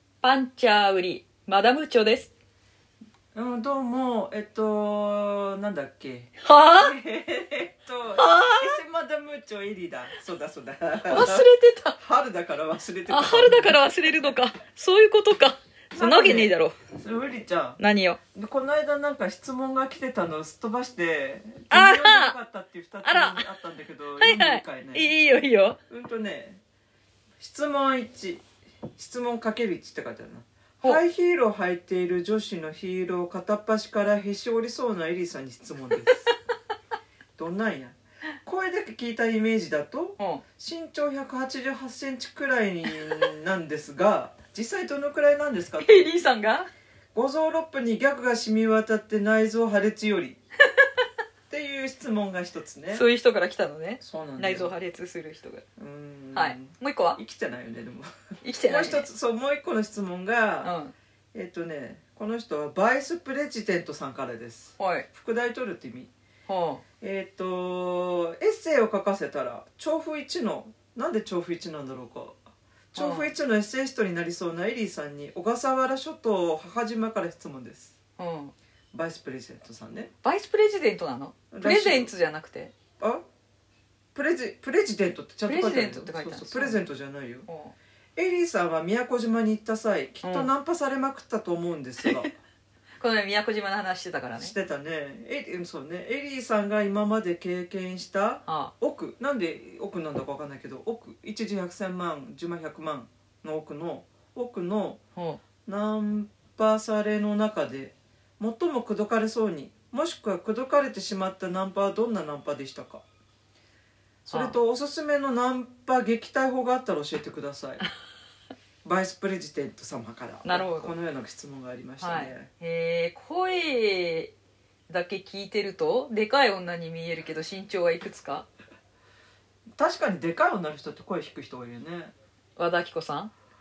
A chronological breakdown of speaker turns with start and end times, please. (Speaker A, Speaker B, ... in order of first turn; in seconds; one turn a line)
Speaker A: 0.2-2.3
Speaker B: 3.3-11.4
Speaker A: 6.4-6.9
Speaker A: 8.1-8.8
Speaker A: 11.1-12.0
Speaker B: 12.0-14.3
Speaker A: 13.1-16.8
Speaker B: 15.9-17.8
Speaker A: 17.8-18.2
Speaker B: 18.3-25.1
Speaker A: 21.7-22.3
Speaker A: 23.0-23.4
Speaker A: 24.2-25.8
Speaker B: 25.9-26.6
Speaker B: 27.4-28.4
Speaker B: 28.9-36.3
Speaker B: 37.4-46.1
Speaker A: 45.8-46.7
Speaker B: 47.1-50.4
Speaker B: 51.5-53.0
Speaker A: 52.9-55.6
Speaker B: 54.0-54.8
Speaker B: 55.8-58.1
Speaker A: 56.3-57.2
Speaker A: 58.4-59.1
Speaker B: 58.6-60.7
Speaker A: 60.6-60.9
Speaker B: 61.3-66.1
Speaker A: 64.8-65.0
Speaker A: 66.5-66.8
Speaker B: 67.0-72.4
Speaker B: 72.9-77.9
Speaker A: 73.0-73.3
Speaker A: 78.2-78.5
Speaker B: 78.9-80.1
Speaker A: 80.2-82.7
Speaker B: 81.5-82.1
Speaker B: 83.0-83.2
Speaker B: 84.1-87.5
Speaker A: 85.5-86.8
Speaker A: 87.5-87.7
Speaker B: 88.2-92.3
Speaker A: 90.2-90.5
Speaker A: 93.0-94.5
Speaker B: 94.4-105.0
Speaker A: 98.5-98.7
Speaker B: 105.7-113.0
Speaker B: 114.2-117.8
Speaker A: 114.3-114.6
Speaker B: 118.8-122.5
Speaker A: 120.4-120.9
Speaker A: 122.0-124.3
Speaker A: 124.9-128.5
Speaker B: 129.8-132.1
Speaker A: 132.6-133.3